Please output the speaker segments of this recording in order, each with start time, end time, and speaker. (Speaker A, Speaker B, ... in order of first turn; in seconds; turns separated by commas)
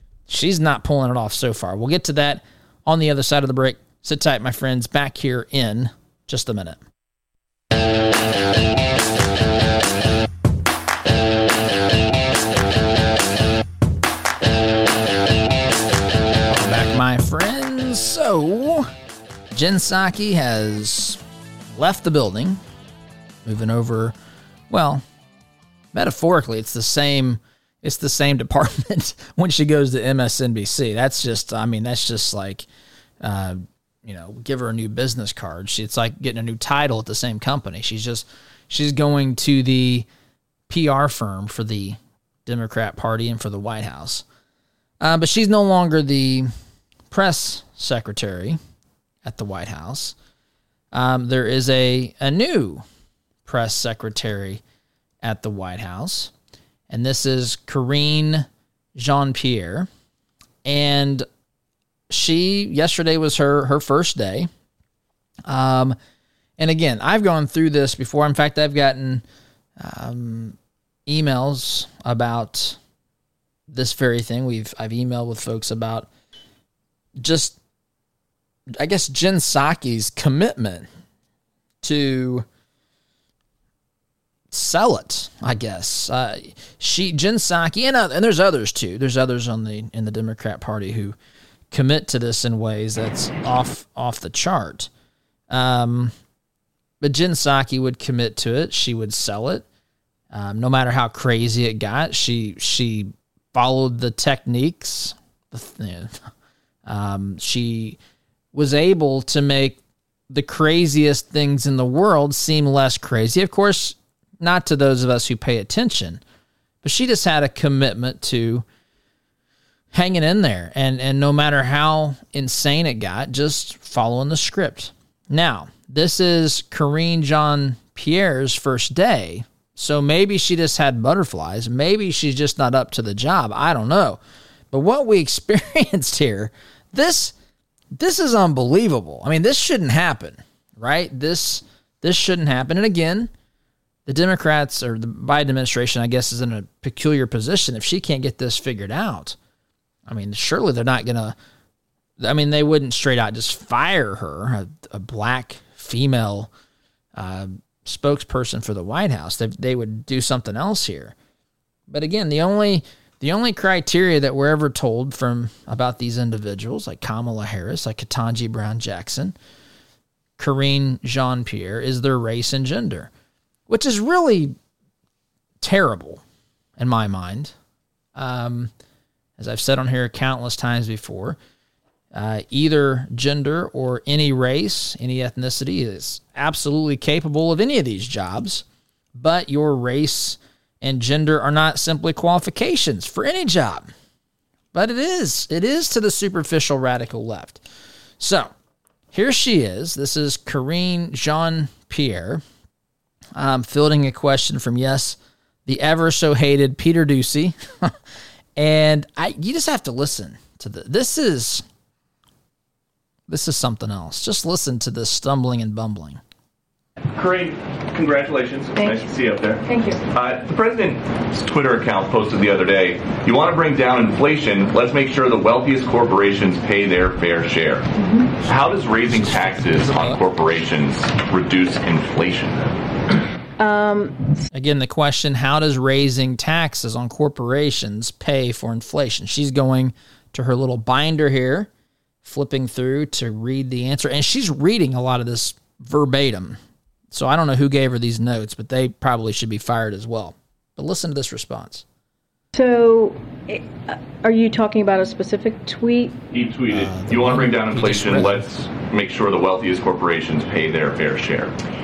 Speaker A: 0.3-6.8, Speaker A: 16.5-18.9, Speaker A: 19.5-21.2, Speaker A: 21.7-22.6, Speaker A: 23.4-24.1, Speaker A: 24.7-25.0, Speaker A: 25.9-32.6, Speaker A: 33.2-40.0, Speaker A: 40.7-44.2, Speaker A: 45.0-46.5, Speaker A: 47.1-48.6, Speaker A: 49.2-50.1, Speaker A: 50.9-52.8, Speaker A: 53.4-54.6, Speaker A: 55.2-56.3, Speaker A: 56.9-59.9, Speaker A: 60.6-61.2, Speaker A: 62.1-64.5, Speaker A: 65.5-66.0, Speaker A: 66.6-69.2, Speaker A: 69.8-72.8, Speaker A: 73.7-76.1, Speaker A: 77.2-77.6, Speaker A: 78.8-80.8, Speaker A: 81.8-82.5, Speaker A: 84.5-91.2, Speaker A: 91.7-94.9, Speaker A: 95.5-96.1, Speaker A: 97.0-99.6, Speaker A: 100.3-106.2, Speaker A: 106.8-108.0, Speaker A: 108.5-109.8, Speaker A: 110.3-116.2, Speaker A: 116.8-118.6, Speaker A: 119.9-134.2, Speaker A: 134.7-137.3, Speaker A: 137.9-143.3, Speaker A: 144.1-149.3, Speaker A: 150.1-151.3, Speaker A: 152.2-156.5, Speaker A: 157.2-161.1, Speaker A: 161.9-169.3, Speaker A: 170.4-173.1, Speaker A: 173.7-174.5, Speaker A: 175.6-176.2, Speaker A: 176.8-177.5, Speaker A: 178.1-178.7, Speaker A: 179.4-181.4, Speaker A: 182.1-188.6, Speaker A: 189.1-193.9, Speaker A: 194.7-197.6, Speaker A: 198.2-198.5, Speaker A: 199.1-202.4, Speaker A: 203.3-207.9, Speaker A: 208.6-211.6, Speaker A: 213.3-216.2, Speaker B: 217.1-227.9, Speaker C: 218.8-219.1, Speaker C: 219.6-220.0, Speaker C: 228.0-228.3, Speaker B: 228.4-232.7, Speaker A: 228.4-230.3, Speaker C: 233.6-234.3, Speaker A: 234.5-241.7, Speaker A: 242.2-246.6, Speaker A: 247.1-251.8, Speaker C: 252.5-256.2, Speaker B: 256.3-261.5, Speaker A: 256.7-258.5